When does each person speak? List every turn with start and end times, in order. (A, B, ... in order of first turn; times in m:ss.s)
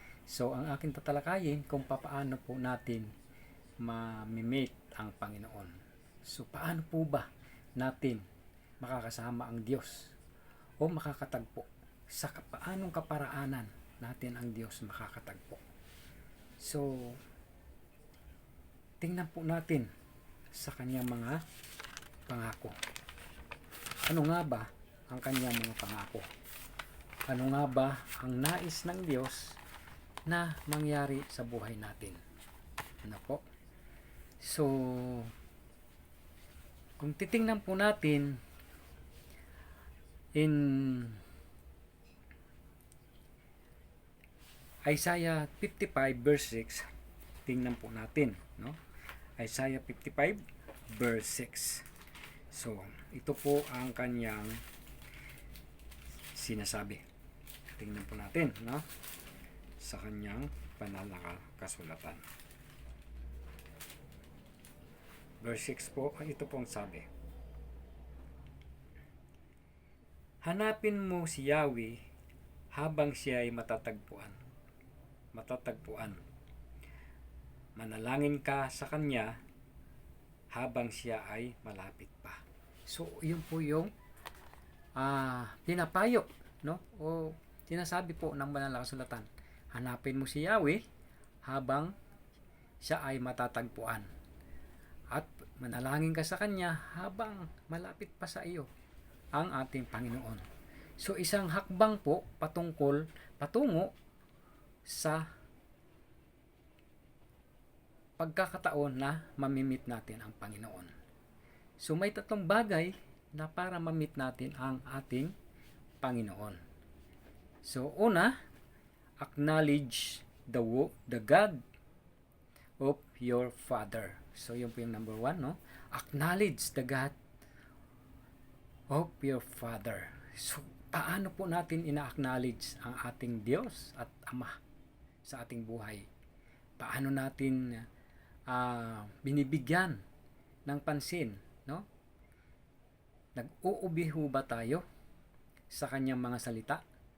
0:00.3-0:03.1 A
0:03.8-0:05.7 A
0:06.2-0:08.2 A
0:08.8-0:10.1 A
0:10.8-0:15.6 A
0:16.6-0:17.2 A
0:19.0-0:19.9 A
0:20.5-0:21.4 A
0:22.3-0:22.8 A
0:24.0-0:26.2 A
0:27.3-0:29.6 A
0:30.3-0:32.2 A
0:33.0-0:33.4 A
0:34.4-0:35.3 A
0:37.0-0:38.4 A
0:40.4-0:41.2 A
0:44.8-0:46.8 A
0:47.4-0:48.8 A
0:49.4-0:51.9 A
0:52.5-0:54.6 A
0:56.3-0:57.0 A
0:57.8-0:58.8 A
0:59.8-1:02.2 A
1:05.4-1:07.1 A
1:10.4-1:12.0 A
1:12.7-1:14.4 A
1:15.3-1:16.2 A
1:17.8-1:19.4 A
1:20.5-1:23.9 A
1:25.0-1:30.8 A
1:31.4-1:31.9 A
1:32.8-1:34.1 A
1:35.1-1:38.7 A
1:39.3-1:40.4 A
1:41.0-1:43.9 A
1:44.8-1:45.3 A
1:48.2-1:50.9 A
1:51.8-1:55.3 A
1:56.0-1:56.6 A
1:57.6-1:58.3 A
1:59.2-2:01.6 A
2:02.8-2:07.1 A
2:08.9-2:14.6 A
2:15.2-2:16.0 A
2:16.8-2:17.8 A
2:18.5-2:20.0 A
2:20.7-2:21.8 A
2:23.4-2:24.8 A
2:25.7-2:26.8 A